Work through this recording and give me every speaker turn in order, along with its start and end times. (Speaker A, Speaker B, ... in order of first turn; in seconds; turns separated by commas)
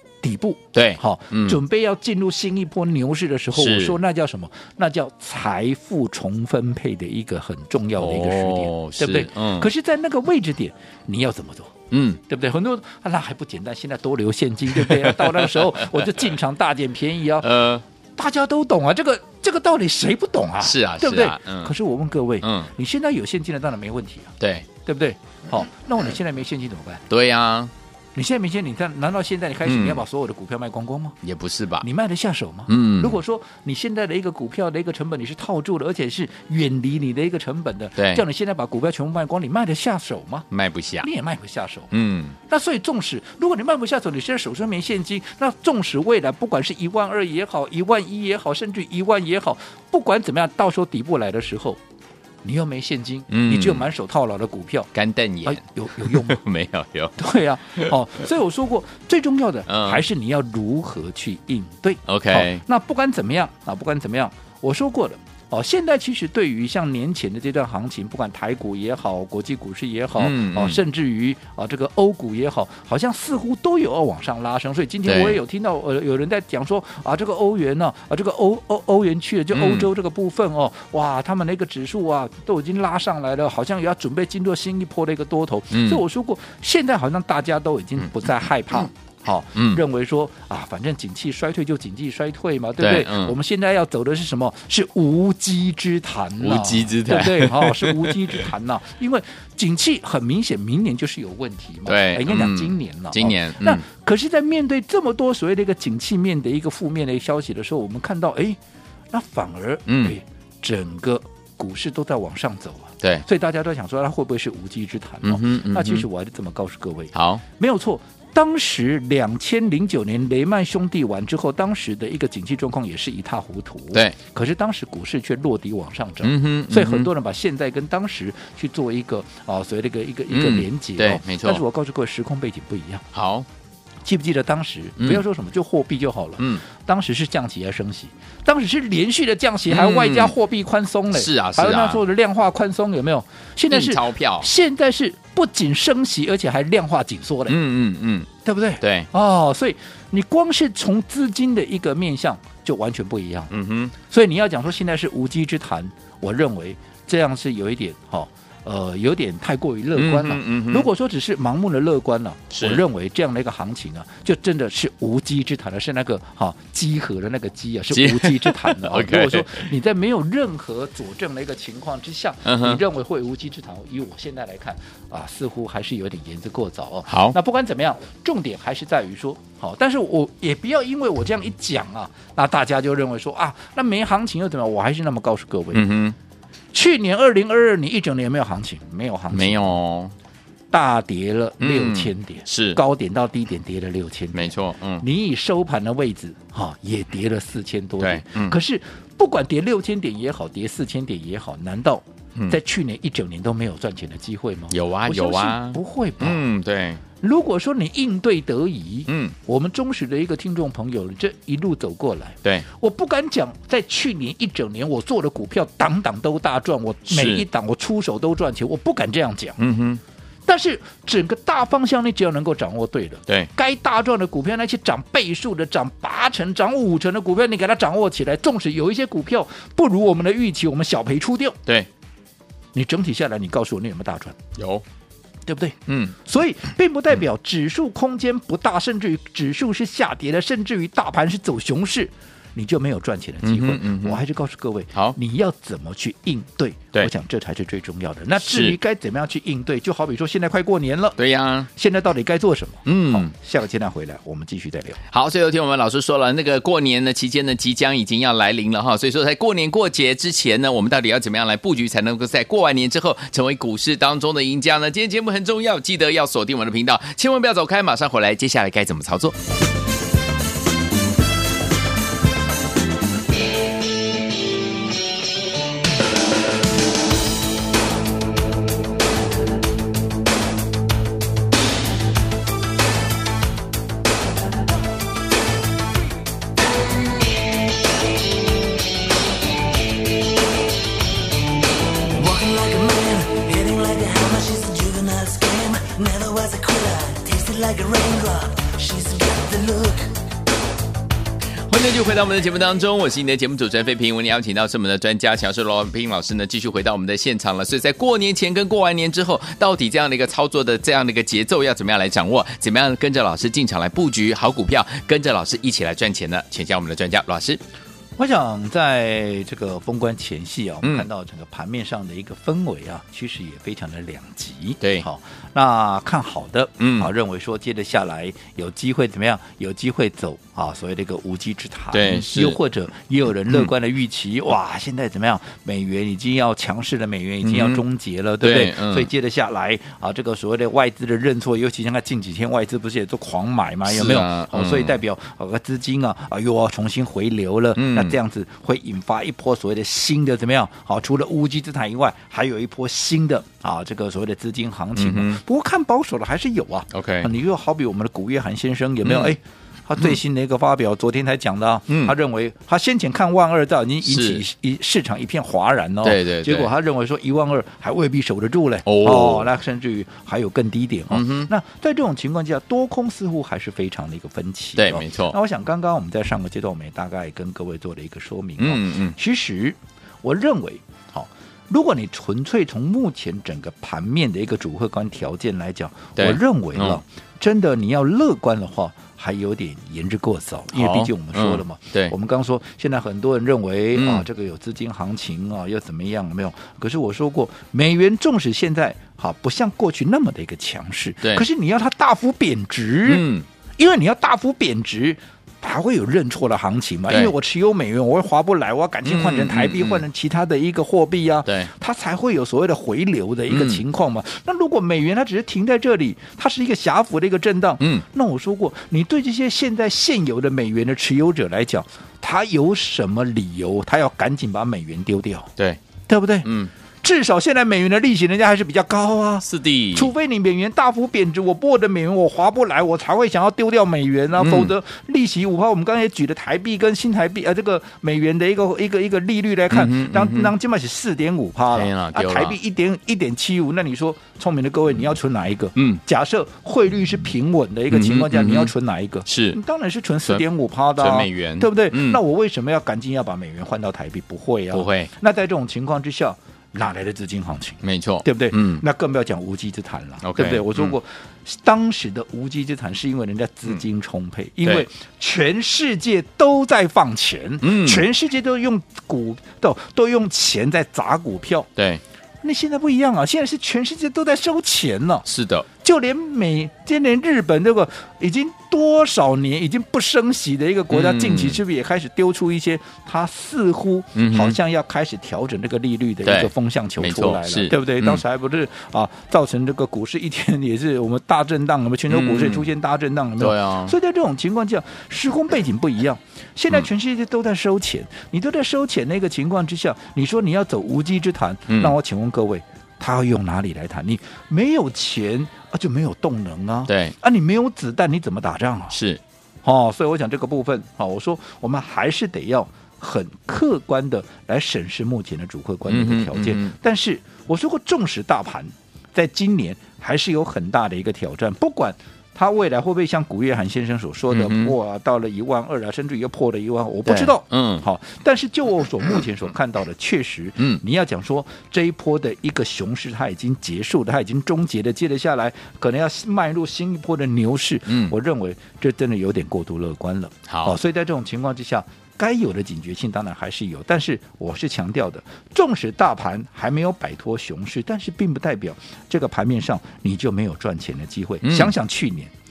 Speaker A: 0.2-11.7, Speaker B: 0.7-1.6, Speaker B: 3.5-4.0, Speaker B: 8.0-9.7, Speaker B: 11.9-12.2, Speaker A: 12.3-17.5, Speaker B: 14.7-16.1, Speaker B: 17.4-17.8, Speaker A: 18.2-24.3, Speaker B: 20.6-21.7, Speaker B: 22.4-22.7, Speaker B: 24.4-24.7, Speaker A: 24.9-27.0, Speaker B: 27.1-27.7, Speaker A: 28.1-31.2, Speaker B: 29.6-30.0, Speaker B: 31.2-31.9, Speaker A: 31.8-40.5, Speaker B: 32.7-33.2, Speaker B: 38.0-38.2, Speaker B: 40.5-41.1, Speaker A: 41.0-41.9, Speaker B: 41.9-42.4, Speaker A: 42.5-51.8, Speaker A: 52.4-54.9, Speaker B: 53.3-53.9, Speaker B: 54.9-57.1, Speaker A: 55.5-56.4, Speaker A: 57.2-108.6, Speaker B: 59.7-60.0, Speaker B: 62.1-62.6, Speaker B: 70.2-70.8, Speaker B: 75.1-75.4, Speaker B: 79.5-79.9, Speaker B: 85.7-86.0, Speaker B: 89.5-89.8, Speaker B: 92.8-93.4, Speaker B: 96.4-98.5, Speaker B: 101.9-103.8, Speaker A: 109.1-133.1, Speaker B: 109.9-110.2, Speaker B: 115.2-116.1, Speaker B: 117.1-117.4, Speaker B: 126.2-127.1, Speaker B: 130.3-131.6, Speaker B: 133.1-133.5, Speaker A: 134.1-147.6, Speaker B: 136.4-136.6, Speaker B: 139.7-140.3, Speaker B: 141.1-142.0, Speaker B: 143.7-144.5, Speaker B: 147.5-148.3, Speaker A: 148.4-153.5, Speaker B: 148.8-149.1, Speaker B: 153.5-153.9, Speaker A: 154.1-185.9, Speaker B: 159.9-160.9, Speaker B: 162.5-162.8, Speaker B: 167.9-169.7, Speaker B: 172.4-172.8, Speaker B: 177.1-177.4, Speaker B: 185.7-186.2, Speaker A: 186.7-189.8, Speaker B: 189.3-190.1, Speaker A: 190.7-206.5, Speaker B: 191.6-192.8, Speaker B: 194.3-195.1, Speaker B: 198.0-198.6, Speaker B: 204.7-207.0, Speaker A: 207.2-219.6, Speaker B: 209.1-209.3, Speaker B: 217.1-217.4, Speaker B: 219.6-220.0, Speaker A: 220.5-231.6, Speaker A: 232.7-234.4, Speaker B: 234.6-234.8, Speaker A: 235.5-251.2, Speaker B: 235.9-236.2, Speaker B: 243.4-244.2, Speaker B: 248.4-248.8, Speaker B: 251.2-251.7, Speaker A: 251.7-255.0, Speaker B: 252.9-253.3, Speaker B: 255.1-269.4, Speaker C: 292.1-300.1, Speaker B: 301.7-317.6, Speaker A: 318.2-403.3, Speaker B: 324.8-325.1, Speaker B: 326.8-327.1, Speaker B: 331.9-332.6, Speaker B: 337.4-337.8, Speaker B: 338.4-339.1, Speaker B: 343.9-345.0, Speaker B: 347.8-348.2, Speaker B: 355.0-355.4, Speaker B: 356.9-357.3, Speaker B: 359.0-359.3, Speaker B: 361.9-362.1, Speaker B: 364.1-364.4, Speaker B: 366.0-366.7, Speaker B: 368.9-369.5, Speaker B: 371.1-371.5, Speaker B: 374.8-375.4, Speaker B: 378.6-379.2, Speaker B: 386.2-387.0, Speaker B: 390.7-392.1, Speaker B: 393.9-394.3, Speaker B: 403.1-403.5, Speaker A: 403.8-425.5, Speaker B: 409.0-410.0, Speaker B: 413.5-413.8, Speaker A: 426.1-426.5, Speaker B: 426.4-426.7, Speaker A: 427.0-471.7, Speaker B: 429.4-430.1, Speaker B: 434.4-434.7, Speaker B: 439.7-440.5, Speaker B: 441.7-442.6, Speaker B: 445.8-446.0, Speaker B: 447.9-448.7, Speaker B: 449.3-449.6, Speaker B: 451.0-452.2, Speaker B: 454.7-455.1, Speaker B: 457.8-458.8, Speaker B: 460.2-461.0, Speaker B: 467.6-468.1, Speaker B: 471.8-472.0, Speaker A: 472.4-475.3, Speaker B: 475.3-475.7, Speaker A: 475.8-509.0, Speaker B: 480.9-481.6, Speaker B: 484.2-484.6, Speaker B: 486.2-488.2, Speaker B: 492.1-492.7, Speaker B: 493.4-493.9, Speaker B: 501.7-501.9, Speaker B: 506.9-507.1, Speaker B: 508.9-509.2, Speaker A: 509.6-552.3, Speaker B: 515.9-516.7, Speaker B: 524.3-524.8, Speaker B: 527.1-527.9, Speaker B: 537.9-538.1, Speaker B: 540.5-540.8, Speaker B: 551.4-551.7